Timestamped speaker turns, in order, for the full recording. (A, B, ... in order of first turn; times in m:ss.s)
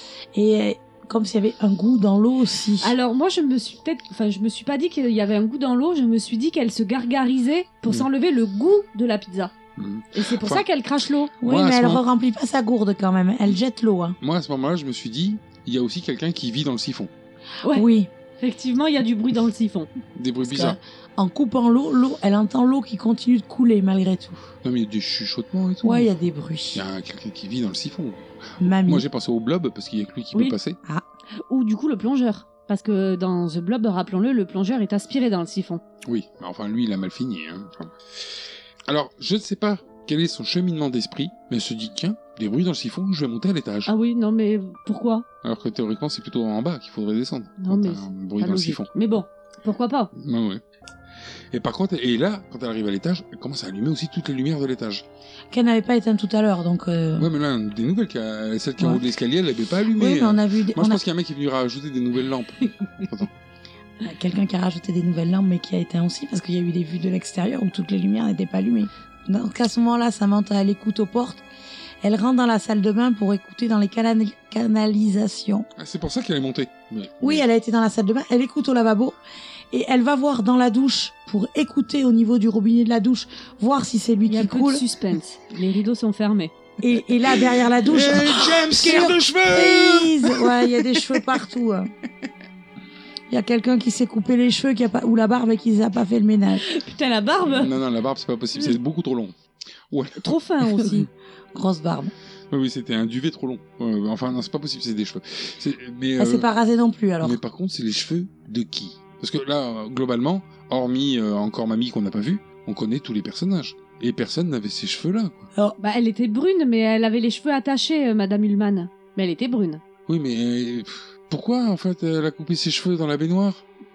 0:00.3-0:02.9 A
0:02.8-0:09.5 B
0:09.8-0:10.6 C
0:10.1-0:11.3 B
0:11.4-0:14.2 A
0:11.4-0:12.0 C
0:14.2-0:17.1 C
0:17.7-0:18.1 A
0:18.4-0:19.9 B
0:20.1-0:20.8 C
0:20.4-0:24.5 A
0:24.6-0:26.1 C
0:25.8-0:26.8 A
0:26.7-0:30.8 C
0:28.6-0:29.0 A
0:31.5-0:35.8 B
0:36.0-0:38.0 C
0:38.9-0:43.9 C
0:43.9-0:45.2 B
0:45.4-0:48.9 C
0:47.6-0:50.1 B
0:50.1-0:50.6 C
0:51.5-0:55.0 C
0:55.5-0:57.3 A
0:57.2-1:03.3 C
0:58.8-0:59.0 A
0:59.9-1:01.0 A
1:04.0-1:11.4 A
1:12.0-1:15.7 A
1:15.8-1:17.4 C
1:17.2-1:19.2 A
1:19.7-1:24.8 A
1:24.3-1:26.5 B
1:26.8-1:31.9 A
1:27.3-1:31.2 C
1:33.3-1:36.6 A
1:36.6-1:37.7 B
1:37.5-1:39.3 C
1:39.9-1:40.9 C
1:40.2-1:41.1 B
1:41.5-1:42.1 A
1:42.5-1:46.5 C
1:46.2-1:47.4 A
1:47.2-1:55.5 C
1:55.8-1:59.8 B
2:00.1-2:03.6 C